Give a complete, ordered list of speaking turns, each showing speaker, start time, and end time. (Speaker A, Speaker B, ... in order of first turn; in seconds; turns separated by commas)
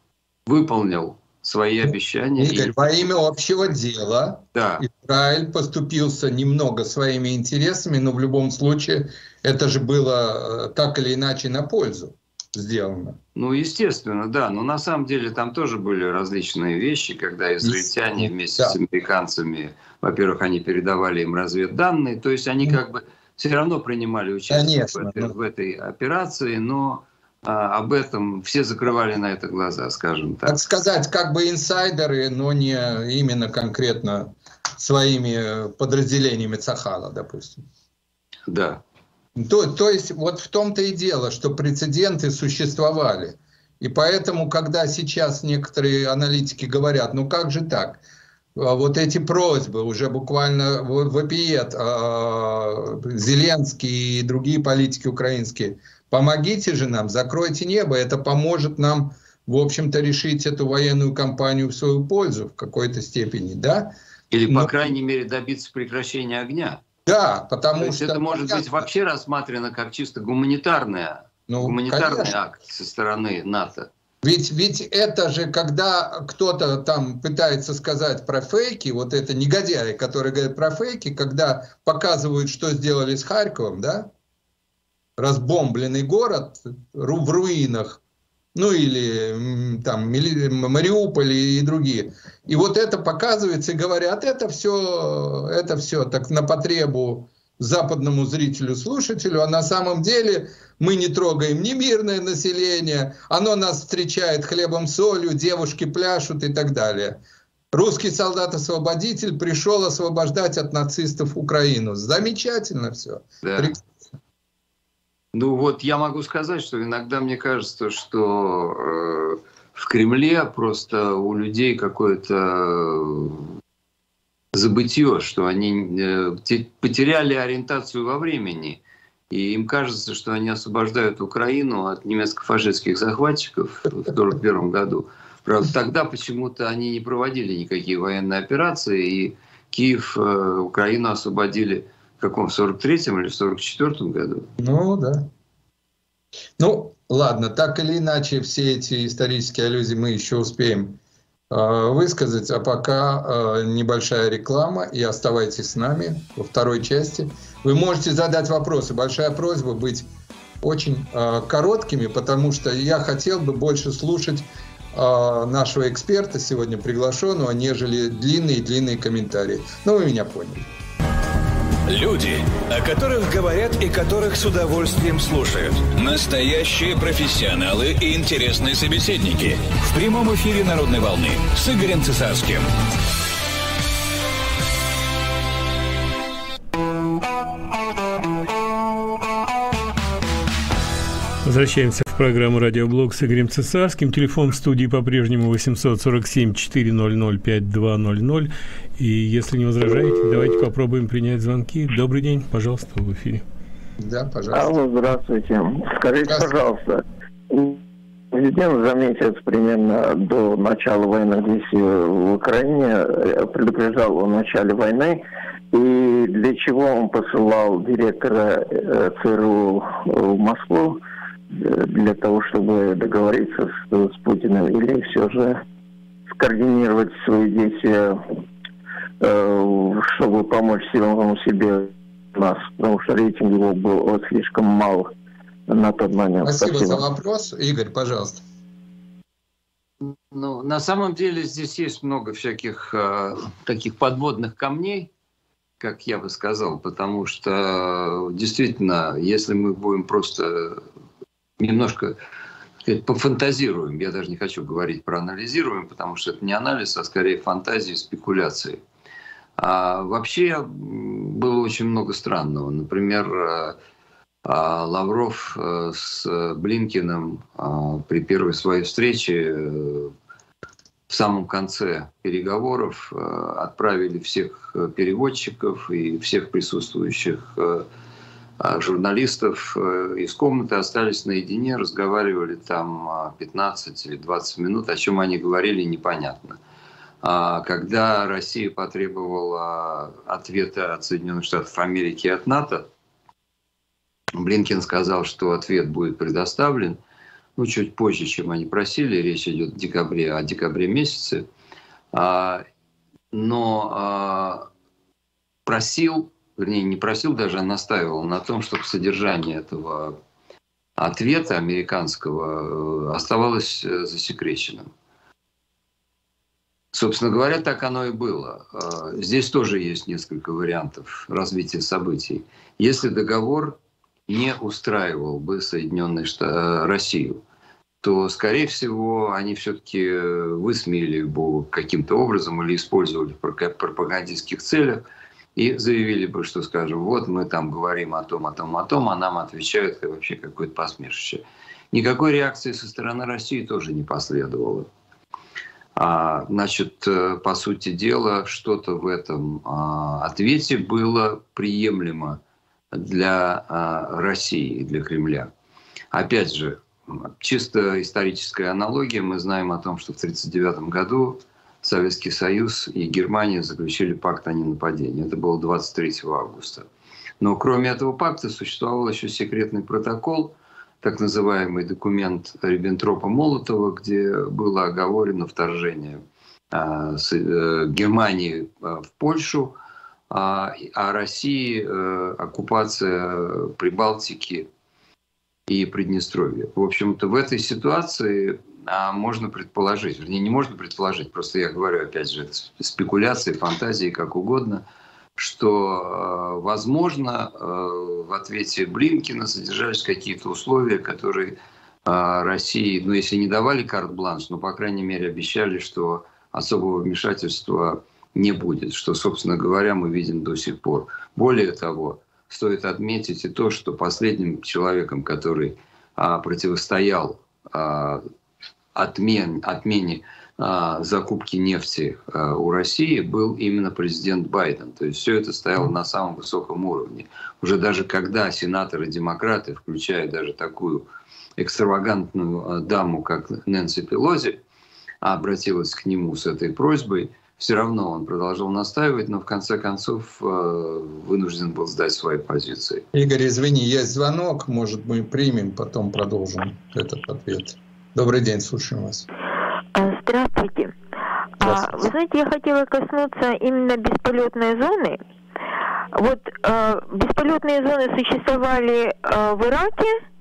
Speaker A: 0.5-3.1, Speaker B: 2.4-13.2, Speaker A: 4.5-4.8, Speaker A: 13.4-30.6, Speaker B: 17.6-18.8, Speaker B: 24.5-25.3, Speaker B: 30.4-37.6, Speaker A: 38.5-38.8, Speaker B: 39.4-48.0, Speaker B: 48.6-64.0, Speaker A: 64.3-66.8, Speaker B: 64.5-64.9, Speaker B: 67.1-68.8, Speaker A: 67.8-73.9, Speaker B: 71.5-72.3, Speaker B: 74.2-84.1, Speaker B: 85.2-88.0, Speaker B: 88.5-107.2, Speaker B: 107.7-113.8, Speaker A: 113.4-113.8, Speaker A: 115.3-123.5, Speaker A: 124.5-144.5, Speaker B: 144.6-145.3, Speaker B: 146.6-151.0, Speaker B: 151.5-160.1, Speaker B: 160.6-170.7, Speaker C: 171.9-182.7, Speaker D: 191.4-203.4, Speaker B: 204.0-204.7, Speaker E: 204.5-207.8, Speaker E: 208.3-221.0, Speaker E: 221.5-225.6, Speaker E: 226.3-228.2, Speaker E: 229.2-235.1, Speaker E: 235.7-237.0, Speaker B: 236.4-238.4, Speaker A: 240.0-245.1, Speaker A: 245.8-250.8, Speaker A: 251.6-252.2, Speaker A: 252.8-258.8, Speaker A: 259.6-263.8, Speaker A: 264.4-270.1, Speaker A: 271.1-277.9, Speaker A: 278.6-286.6, Speaker A: 287.2-292.9, Speaker A: 294.4-297.0, Speaker A: 297.6-301.4, Speaker A: 302.1-302.6, Speaker A: 303.3-304.7, Speaker A: 305.6-310.1, Speaker A: 311.0-314.9, Speaker A: 316.9-327.4, Speaker A: 328.0-335.1, Speaker A: 335.6-344.9, Speaker A: 345.9-352.4, Speaker A: 352.9-355.5, Speaker A: 356.1-366.9, Speaker A: 367.4-376.2, Speaker A: 376.7-379.8, Speaker A: 380.3-384.7, Speaker A: 385.7-394.8, Speaker A: 395.4-418.2, Speaker A: 418.9-431.1, Speaker A: 431.6-434.6, Speaker A: 435.2-443.1, Speaker B: 443.1-449.3, Speaker F: 449.9-450.9, Speaker F: 451.6-455.2, Speaker B: 451.6-452.1, Speaker F: 456.1-460.2